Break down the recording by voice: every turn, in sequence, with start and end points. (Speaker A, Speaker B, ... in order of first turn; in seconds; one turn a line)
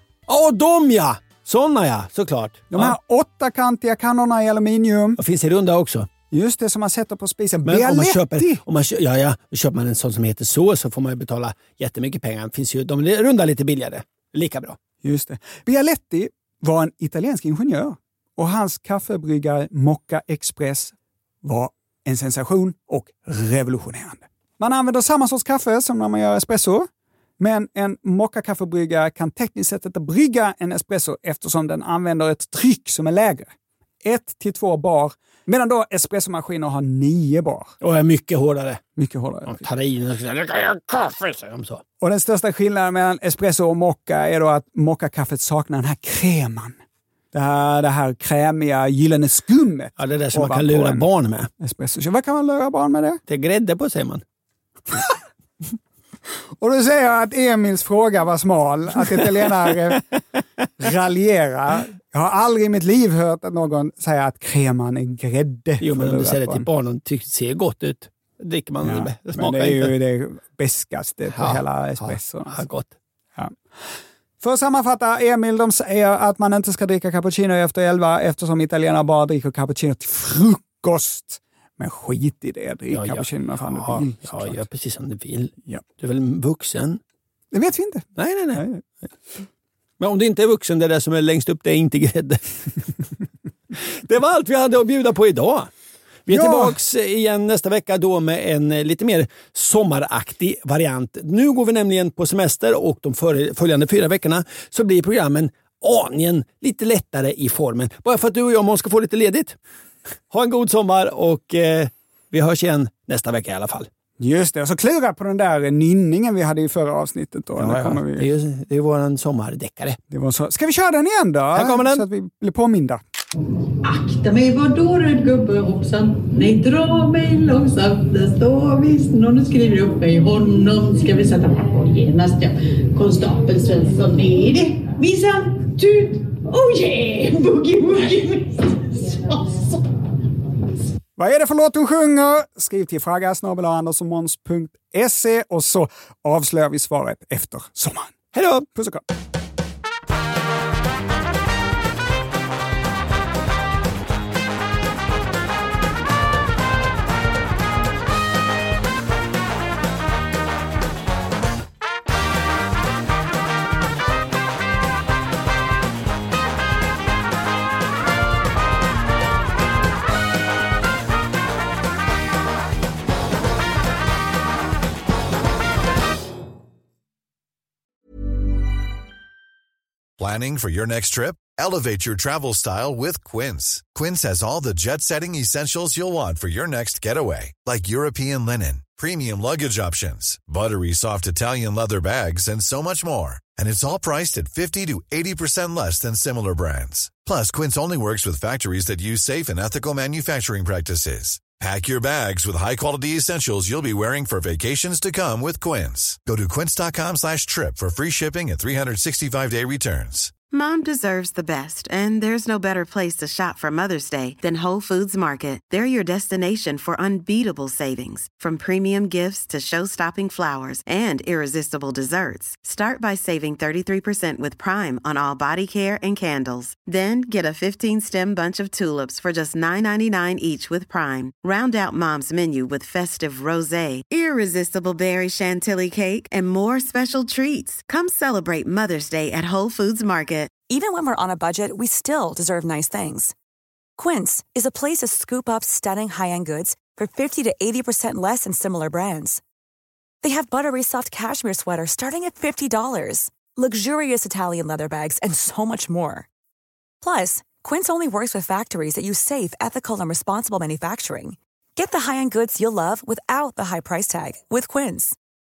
Speaker A: 0.3-3.0
Speaker B: 2.7-5.2
Speaker A: 5.2-6.1
Speaker B: 6.3-8.6
Speaker A: 7.6-14.8
Speaker B: 15.0-26.9
Speaker B: 27.4-33.5
Speaker B: 34.0-37.7
Speaker A: 37.8-38.8
Speaker B: 39.0-39.7
Speaker A: 39.5-41.8
Speaker B: 42.0-46.8
Speaker B: 47.3-51.1
Speaker A: 50.0-51.5
Speaker B: 51.6-53.2
Speaker A: 53.3-54.2
Speaker B: 56.6-60.0
Speaker B: 60.8-66.7
Speaker A: 65.8-69.9
Speaker B: 68.8-72.6
Speaker A: 71.3-72.9
Speaker B: 74.4-84.6
Speaker A: 82.9-87.0
Speaker B: 87.5-88.8
Speaker A: 88.2-88.6
Speaker A: 90.0-92.4
Speaker A: 93.8-95.7
Speaker A: 96.2-109.6
Speaker B: 96.3-96.7
Speaker A: 110.3-113.9
Speaker B: 114.2-118.3
Speaker A: 117.6-120.0
Speaker B: 120.1-123.0
Speaker A: 121.5-122.0
Speaker C: 123.8-139.8
Speaker B: 141.2-148.1
Speaker A: 148.3-148.7
Speaker B: 148.7-149.0
Speaker D: 180.2-210.3
Speaker E: 210.5-240.6
Speaker F: 240.7-243.3
Speaker F: 244.0-249.4
Speaker F: 250.2-256.3
Speaker F: 257.0-265.2